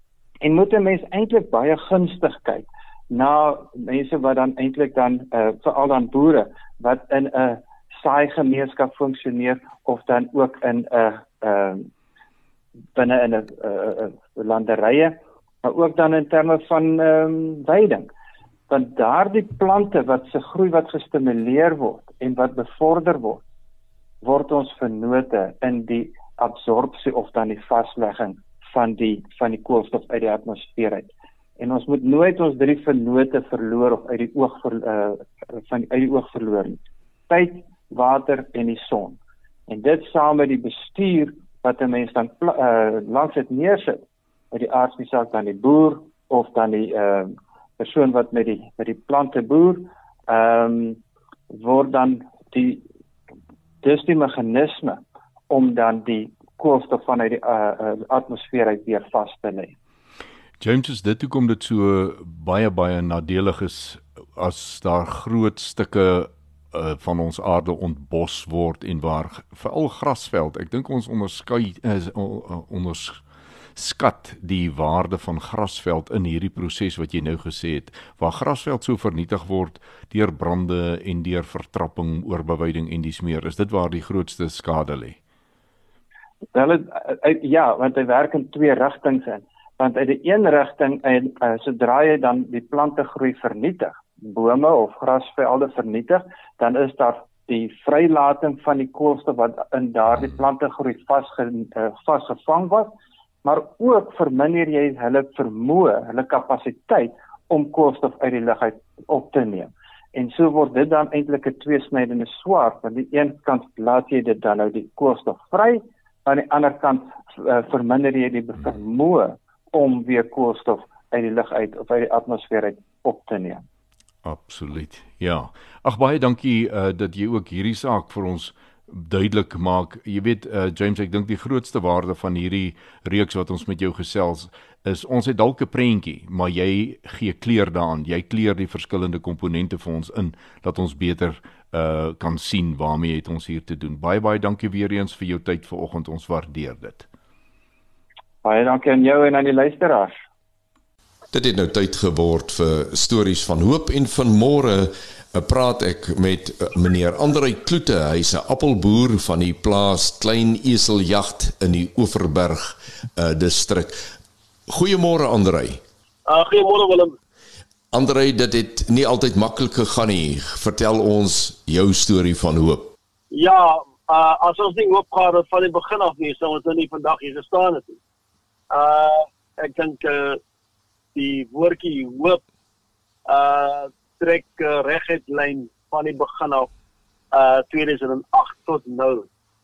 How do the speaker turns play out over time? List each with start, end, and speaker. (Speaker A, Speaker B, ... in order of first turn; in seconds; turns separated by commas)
Speaker A: 0.4-11.9, Speaker A: 12.9-18.1, Speaker A: 18.7-23.4, Speaker A: 24.2-39.2, Speaker A: 39.7-51.0, Speaker A: 51.5-52.8, Speaker A: 53.8-59.7, Speaker B: 60.6-73.2, Speaker B: 73.7-85.2, Speaker A: 86.5-102.9, Speaker A: 103.4-123.6, Speaker B: 124.2-147.1, Speaker A: 148.4-150.2, Speaker C: 151.3-164.1, Speaker C: 164.7-165.8, Speaker D: 166.3-167.1, Speaker C: 167.9-172.9, Speaker D: 173.3-178.0, Speaker D: 178.7-180.4, Speaker D: 181.1-182.4, Speaker D: 183.3-186.7, Speaker D: 187.3-189.3